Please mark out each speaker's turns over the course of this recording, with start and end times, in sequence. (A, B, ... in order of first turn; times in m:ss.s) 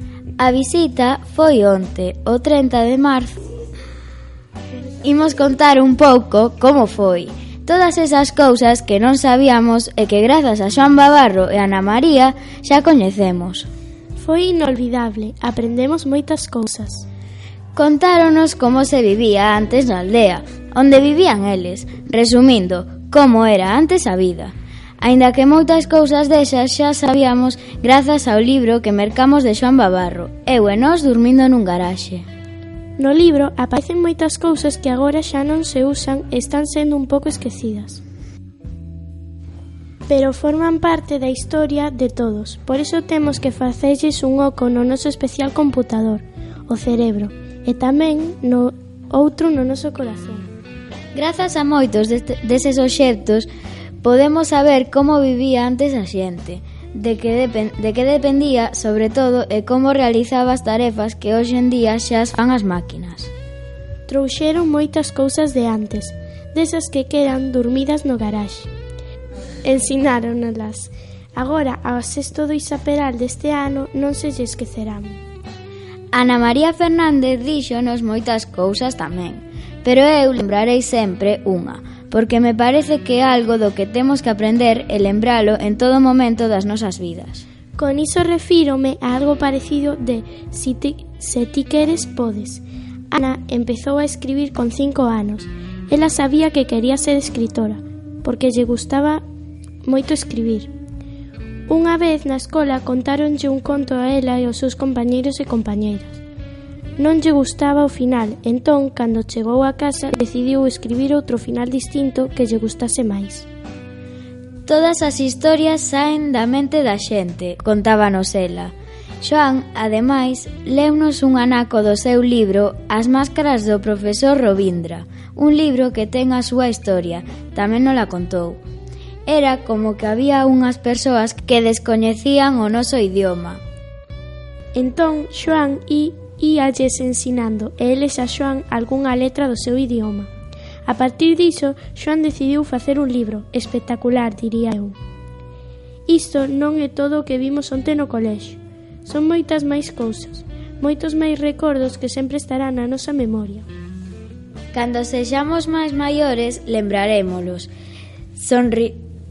0:00.4-0:03.4 A
0:05.0-0:13.7 A
0:14.2-0:17.1 B
0:17.8-0:32.3 A
0:33.0-0:38.0 B
0:40.1-0:50.5 B
0:51.1-0:53.5 A
0:54.0-1:03.3 A
1:04.1-1:08.7 B
1:09.6-1:15.2 B
1:16.1-1:27.4 A
1:27.8-1:39.2 B
1:39.8-1:40.7 B
1:41.7-1:46.2 B
1:47.0-1:53.5 B
1:54.7-2:08.6 A
2:09.3-2:13.6 A
2:14.7-2:20.3 B
2:20.9-2:25.0 B
2:26.1-2:33.7 B
2:34.7-2:37.7 A
2:38.4-2:39.0 A